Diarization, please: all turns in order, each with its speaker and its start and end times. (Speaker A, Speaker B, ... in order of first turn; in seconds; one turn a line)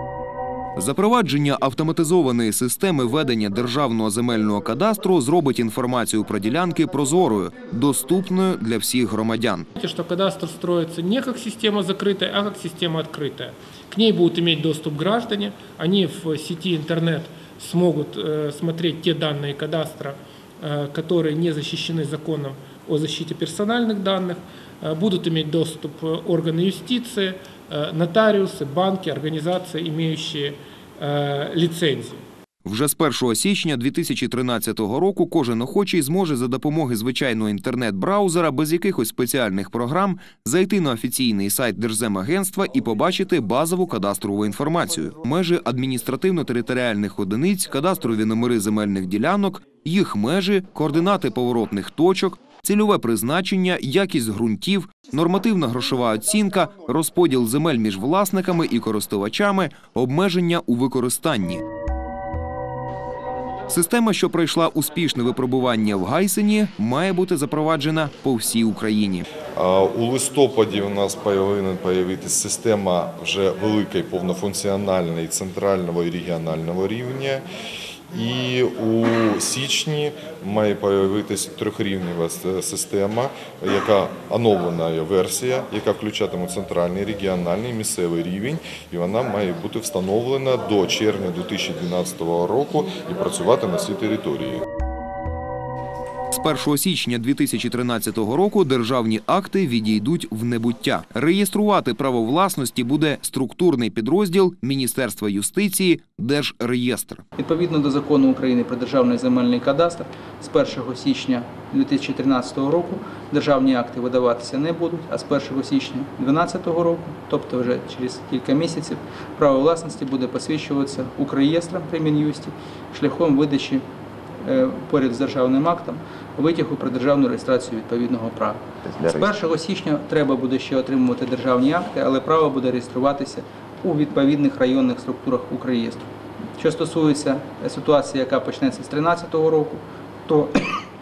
Speaker A: 0.8-9.7
Speaker B: 9.8-32.2
Speaker A: 32.6-61.6
Speaker A: 63.7-69.2
Speaker C: 69.5-77.4
Speaker C: 78.1-94.6
Speaker A: 96.3-107.2
Speaker D: 107.4-123.8
Speaker D: 124.4-140.8